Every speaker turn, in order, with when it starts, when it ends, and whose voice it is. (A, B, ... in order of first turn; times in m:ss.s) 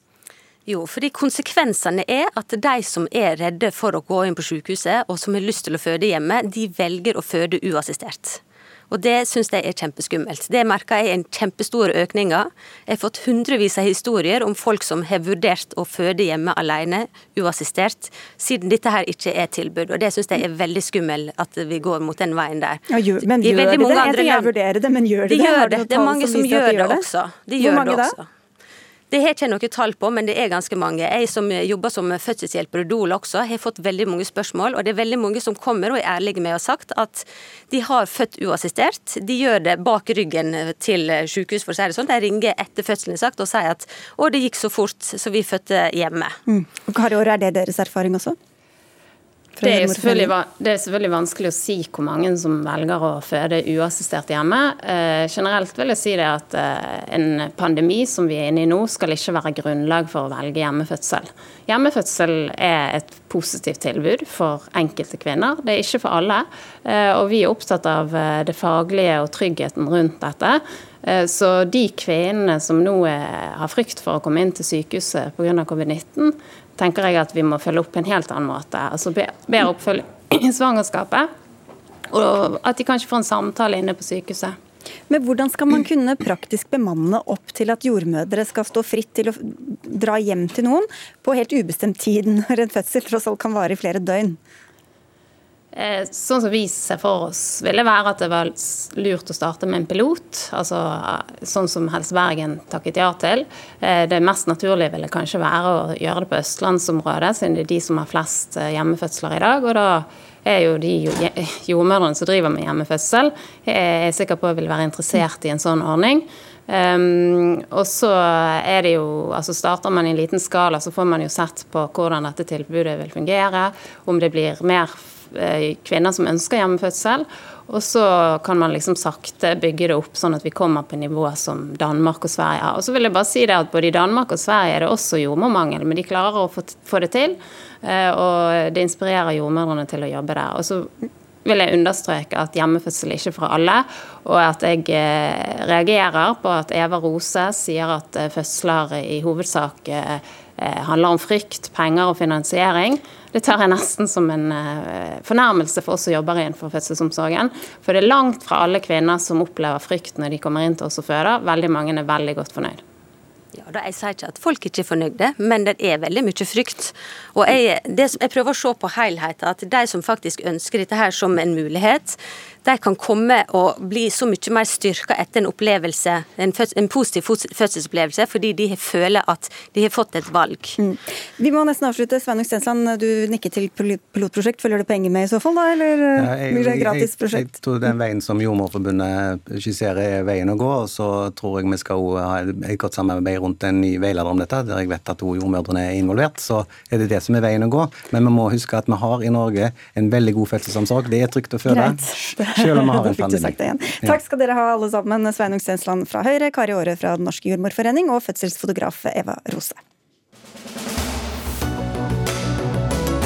0:00.7-0:24.5 A
0:22.9-0:27.0 B
0:25.3-0:28.3 A
0:27.6-0:28.2 B
0:29.1-0:46.4 A
0:46.5-0:48.4 B
0:49.6-0:50.3 B
0:49.6-1:21.3 C
1:22.1-1:24.6 C
1:25.1-1:34.4 B
1:35.7-2:20.9 C
2:21.4-2:42.8 C
2:43.5-3:00.8 A
3:00.8-3:07.6 B
3:06.2-3:24.2 D
3:21.7-3:29.8 B